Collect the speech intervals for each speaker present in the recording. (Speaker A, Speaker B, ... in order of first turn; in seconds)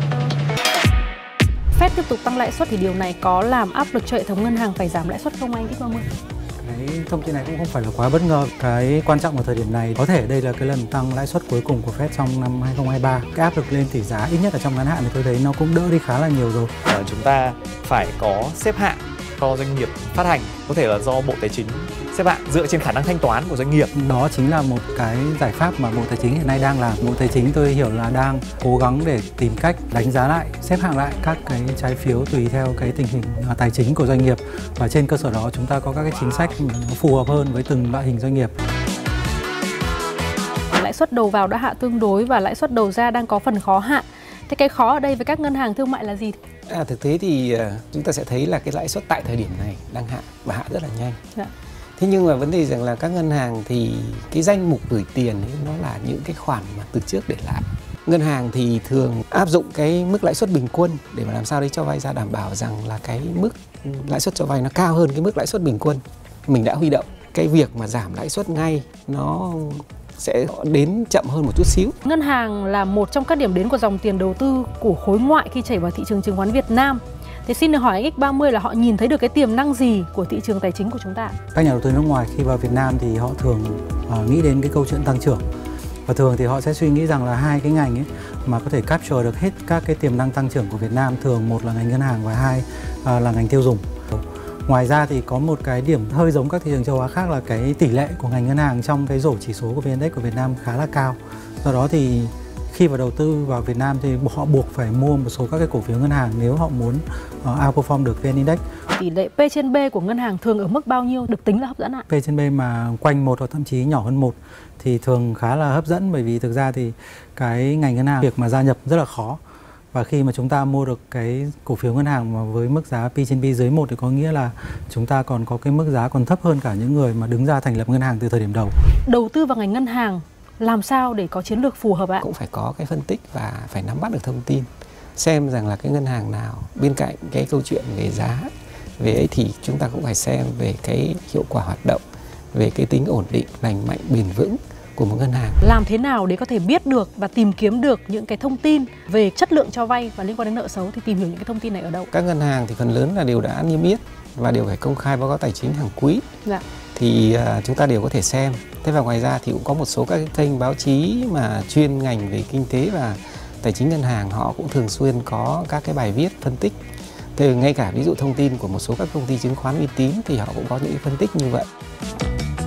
Speaker A: 1.7-6.0, 40.7-46.4, 72.0-81.3, 108.9-112.0, 129.1-132.2, 145.6-152.1
Speaker B: 6.6-16.7, 23.9-38.5, 81.5-85.4, 86.1-108.6, 112.1-119.4, 119.9-128.7
Speaker C: 16.9-23.9
Speaker D: 46.7-51.2, 52.0-71.9, 132.2-142.0, 142.5-145.6, 152.1-156.2, 156.9-166.8, 167.3-171.7